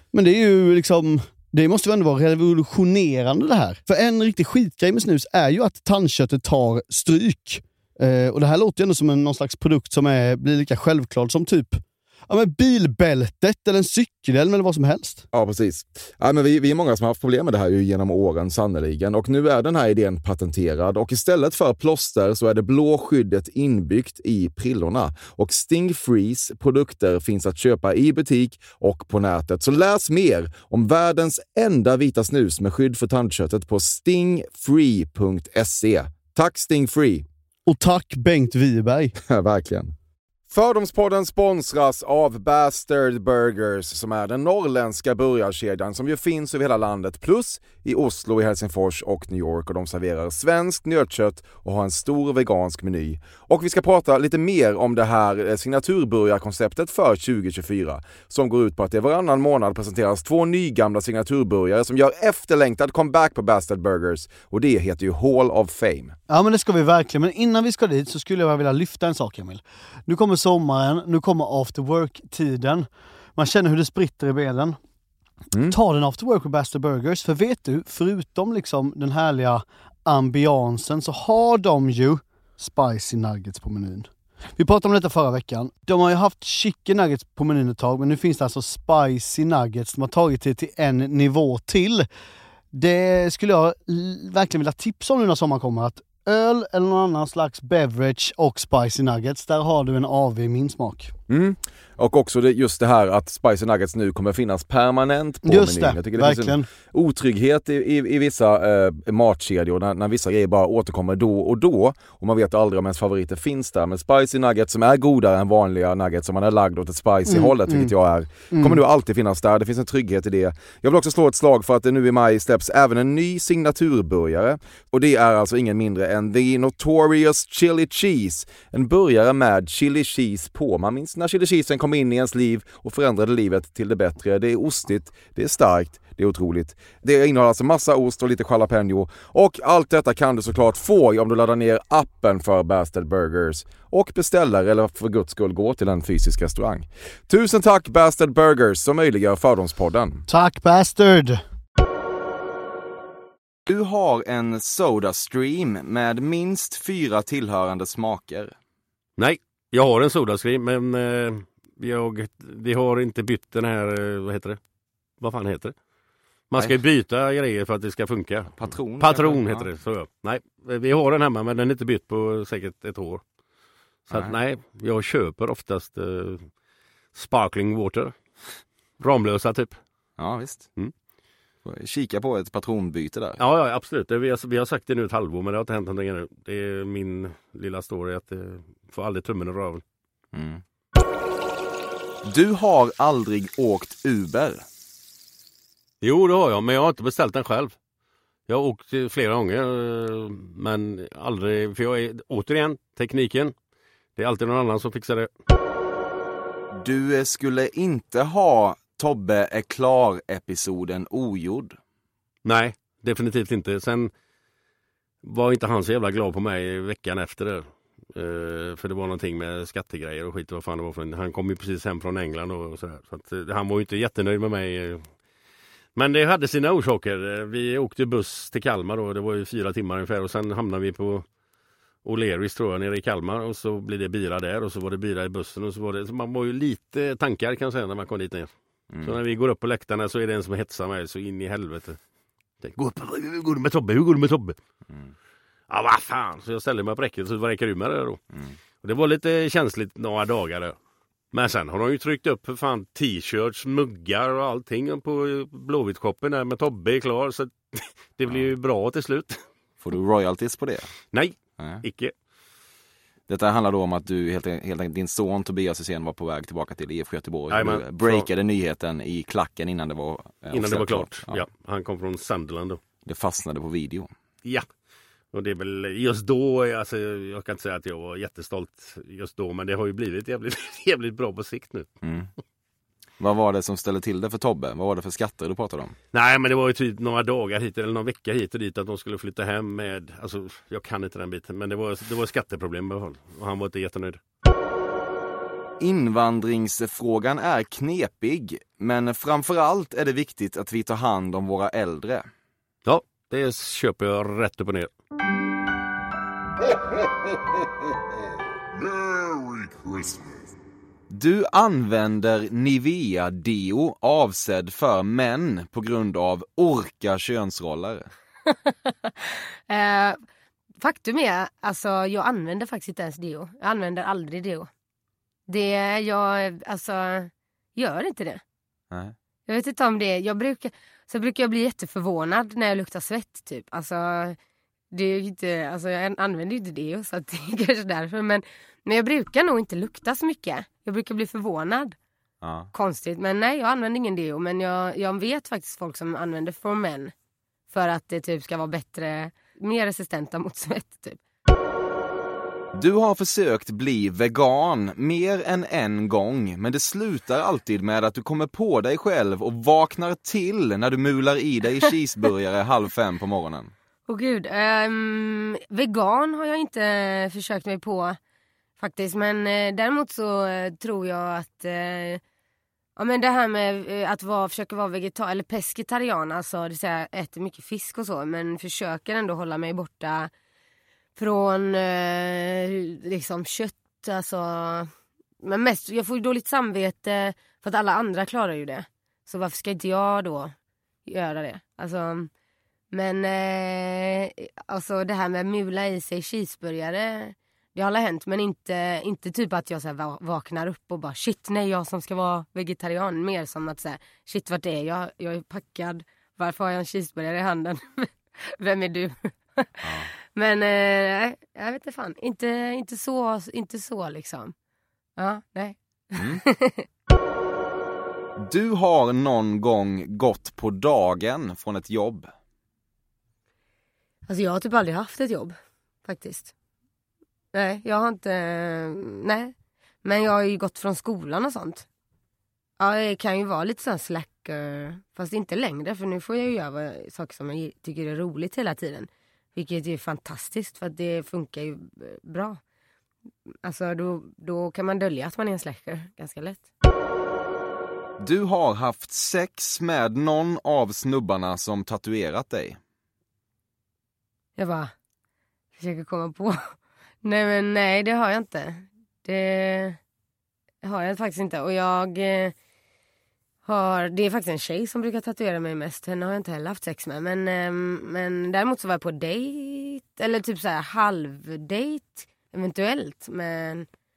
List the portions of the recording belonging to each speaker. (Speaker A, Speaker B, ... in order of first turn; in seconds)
Speaker A: 0.1-15.2, 37.7-39.1, 66.3-74.8, 75.7-92.1, 92.7-101.1, 105.4-106.7, 117.3-117.9, 118.5-118.8, 150.3-151.4
Speaker B: 15.3-37.2, 39.2-39.9, 40.5-66.1, 101.3-150.2
Speaker C: 153.7-158.5, 168.6-169.7, 180.2-180.7, 181.6-183.4, 190.3-190.6, 192.2-194.6, 206.7-211.8, 238.9-239.2, 244.9-245.1, 259.8-260.9, 261.6-261.8, 263.3-271.4, 273.0-274.1, 282.0-282.3, 283.2-285.9, 295.8-302.3, 311.1-318.1, 342.4-342.7, 352.7-363.7, 409.8-410.1, 416.2-416.4, 418.4-422.3, 448.2-452.8
Speaker D: 159.2-164.6, 165.2-165.7, 166.5-173.2, 174.1-176.5, 177.1-178.1, 179.0-179.8, 183.4-189.8, 196.0-197.7, 198.5-203.5, 204.2-205.3, 212.4-214.1, 215.2-225.1, 225.9-231.2, 232.0-242.0, 242.6-244.6, 245.7-248.2, 248.8-250.8, 251.3-259.4, 261.1-262.1, 267.5-268.3, 270.5-272.8, 275.3-281.9, 286.1-294.2, 302.8-304.9
Speaker E: 318.6-320.2, 320.8-324.7, 325.5-328.4, 329.5-334.4, 334.9-342.0, 342.7-347.1, 347.7-351.2, 364.1-368.2, 368.8-372.2, 373.0-380.3, 381.1-390.5, 391.1-392.3, 392.9-414.5, 415.2-416.8, 424.3-426.5, 427.5-431.9, 432.8-442.6, 443.6-446.6, 454.6-454.9, 455.7-460.0, 460.8-462.5, 463.6-473.9